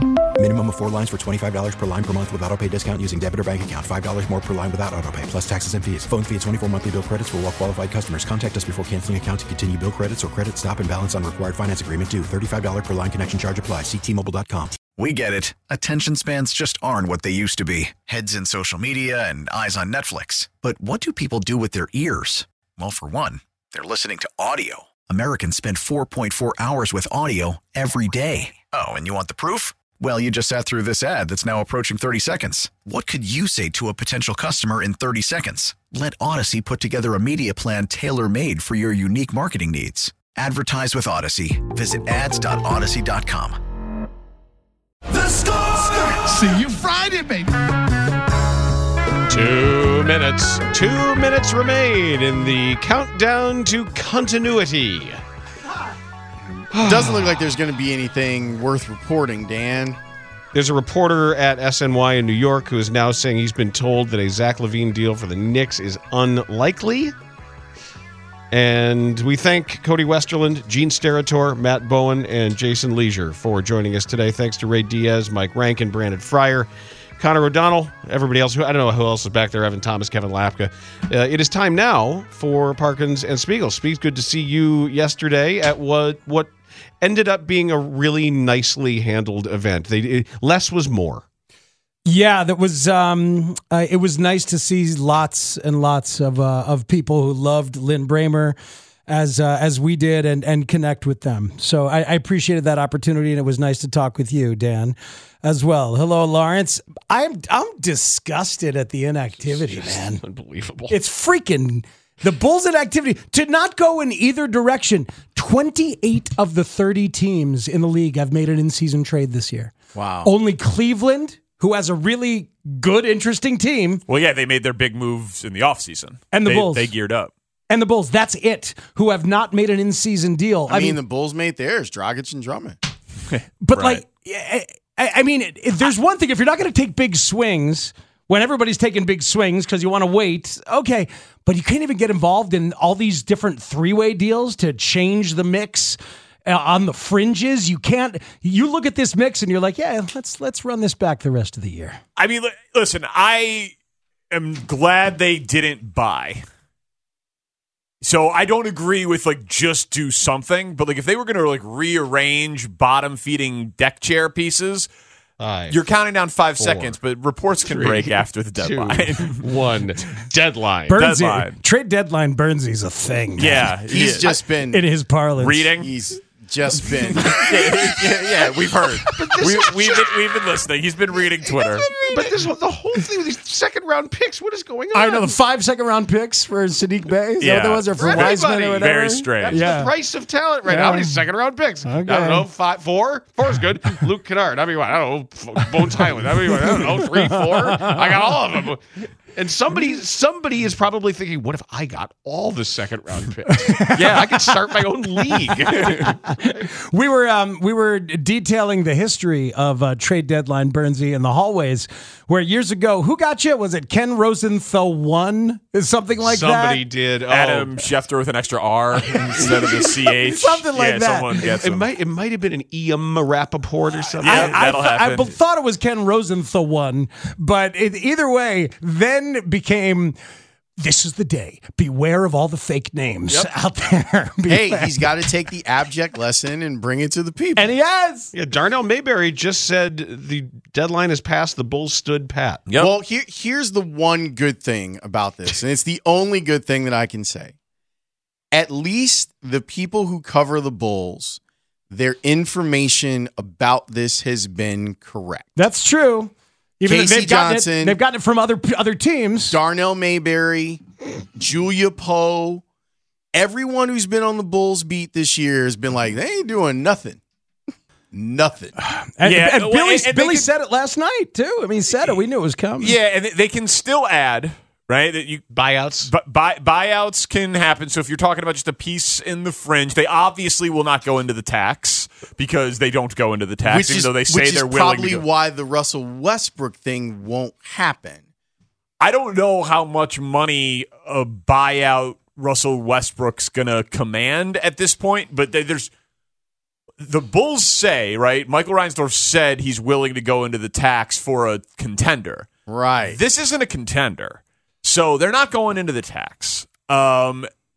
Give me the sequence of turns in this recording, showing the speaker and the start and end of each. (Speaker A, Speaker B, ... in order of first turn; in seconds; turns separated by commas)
Speaker A: 0.4-14.7, Speaker B: 14.8-43.6, Speaker C: 45.1-47.6, Speaker D: 49.3-55.2, Speaker D: 56.7-57.4, Speaker E: 56.8-60.0, Speaker D: 60.5-67.1, Speaker D: 68.5-91.2, Speaker F: 92.1-98.6, Speaker F: 99.1-110.2, Speaker D: 109.4-111.0, Speaker F: 110.9-119.7, Speaker E: 119.9-120.3, Speaker F: 120.2-124.0, Speaker G: 124.1-127.3, Speaker F: 126.3-126.9, Speaker F: 127.7-131.0, Speaker E: 130.7-132.8, Speaker G: 133.3-134.0, Speaker F: 133.6-152.0, Speaker G: 152.2-153.7, Speaker G: 154.3-156.4, Speaker G: 158.0-164.9, Speaker D: 165.4-165.8, Speaker G: 165.7-169.5, Speaker D: 166.6-167.0, Speaker D: 167.7-171.0, Speaker F: 170.9-173.7, Speaker G: 171.0-171.5, Speaker G: 173.4-174.3, Speaker E: 173.9-174.8, Speaker F: 174.7-175.7, Speaker G: 175.4-175.9, Speaker E: 175.8-177.8, Speaker G: 177.2-181.9, Speaker D: 179.0-180.2, Speaker D: 181.8-185.3, Speaker F: 181.9-182.2, Speaker F: 184.9-189.9, Speaker G: 187.4-189.7, Speaker D: 188.0-206.6, Speaker F: 190.7-191.2, Speaker F: 191.9-192.4, Speaker F: 196.5-198.0, Speaker F: 203.6-204.2, Speaker G: 204.0-204.3, Speaker F: 205.5-216.8, Speaker D: 216.2-217.8, Speaker G: 217.3-221.9, Speaker D: 219.1-219.5, Speaker F: 220.2-221.4, Speaker D: 221.4-224.6, Speaker F: 224.2-230.2, Speaker G: 224.2-225.3, Speaker F: 230.8-235.1, Speaker E: 234.5-237.6, Speaker F: 237.6-238.3, Speaker D: 238.3-242.7, Speaker E: 242.8-247.5, Speaker E: 248.5-251.4, Speaker E: 251.9-255.6, Speaker F: 255.6-259.6, Speaker E: 256.9-258.0, Speaker E: 259.5-260.8, Speaker E: 261.4-262.6, Speaker E: 263.3-267.2, Speaker E: 268.1-268.8, Speaker F: 268.9-272.9, Speaker G: 269.2-270.5, Speaker G: 272.8-275.5, Speaker D: 275.5-276.1, Speaker G: 276.0-285.2, Speaker E: 283.6-288.2, Speaker G: 289.0-295.9, Speaker G: 297.0-302.5, Speaker E: 302.7-303.2, Speaker G: 303.1-307.5